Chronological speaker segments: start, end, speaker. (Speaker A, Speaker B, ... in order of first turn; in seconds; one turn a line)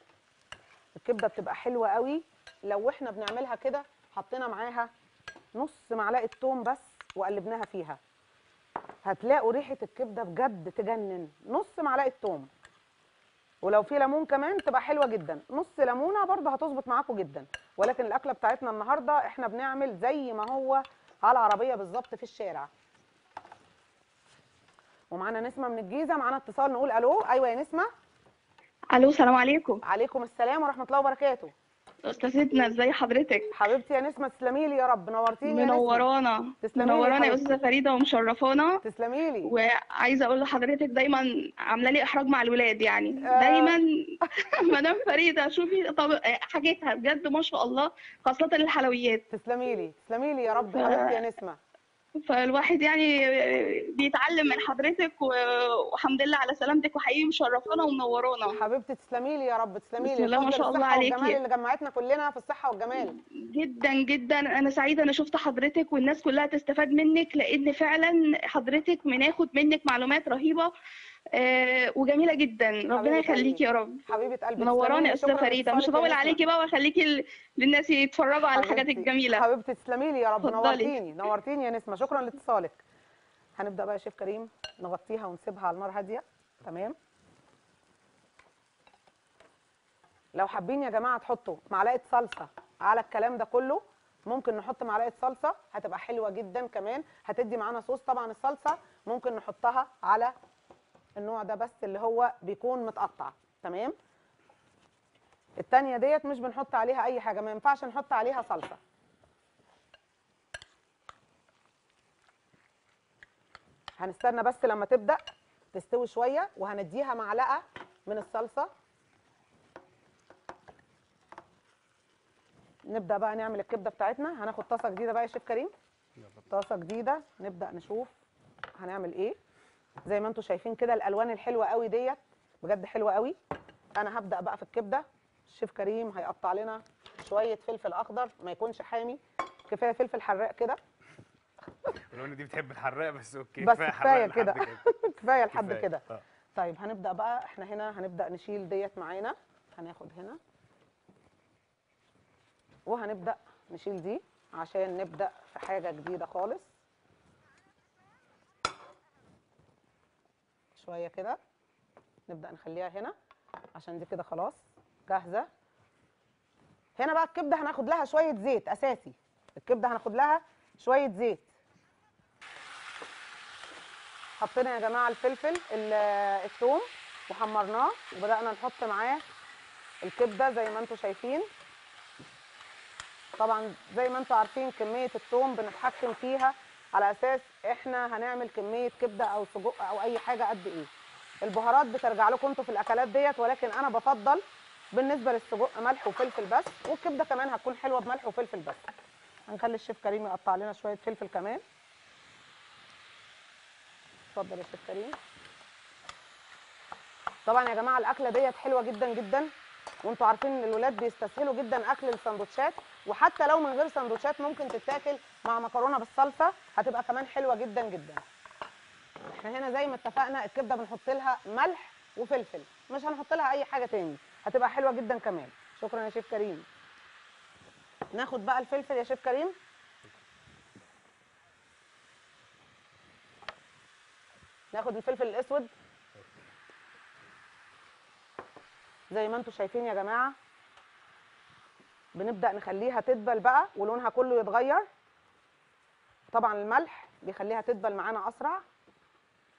Speaker A: 0.9-4.9
Speaker A: 5.5-8.0
Speaker A: 9.0-12.5
Speaker A: 13.6-22.7
Speaker A: 25.1-27.9
Speaker B: 28.9-29.8
Speaker A: 29.8-31.5
Speaker B: 32.0-33.5
Speaker A: 33.5-36.0
Speaker B: 35.4-38.8
Speaker A: 36.6-37.5
Speaker A: 38.8-39.5
Speaker B: 39.4-49.2
Speaker A: 43.2-43.8
Speaker A: 49.3-51.6
Speaker B: 50.7-51.2
Speaker B: 52.3-58.6
Speaker A: 58.5-63.1
Speaker B: 60.0-61.4
Speaker B: 62.9-70.7
Speaker B: 71.3-74.0
Speaker A: 72.9-76.4
Speaker B: 74.6-79.5
Speaker A: 78.5-82.8
Speaker B: 80.4-81.0
Speaker A: 83.6-87.0
Speaker A: 90.3-100.3
Speaker A: 101.2-103.9
Speaker A: 105.6-108.8
Speaker A: 114.0-115.2
Speaker A: 115.7-118.7
Speaker A: 122.9-125.7
Speaker A: 126.5-128.1
Speaker A: 128.8-129.4
Speaker A: 130.1-133.3
Speaker A: 133.9-140.8
Speaker C: 142.1-144.8
Speaker A: 143.6-150.4
Speaker C: 145.5-145.9
Speaker A: 152.8-156.7
Speaker A: 160.7-161.4
Speaker A: 162.3-163.1
Speaker A: 163.7-165.5
Speaker A: 167.0-171.5
Speaker A: 174.4-179.2
Speaker A: 180.0-181.4
Speaker A: 183.4-190.9
Speaker A: 191.4-198.8
Speaker A: 199.5-201.6
Speaker A: 204.3-205.2
Speaker A: 207.4-209.5
Speaker A: 210.0-218.2
Speaker A: 219.3-226.6
Speaker A: 228.1-229.6
Speaker A: 234.7-235.7
Speaker A: 239.1-240.3
Speaker A: 242.1-244.9
Speaker A: 246.3-248.6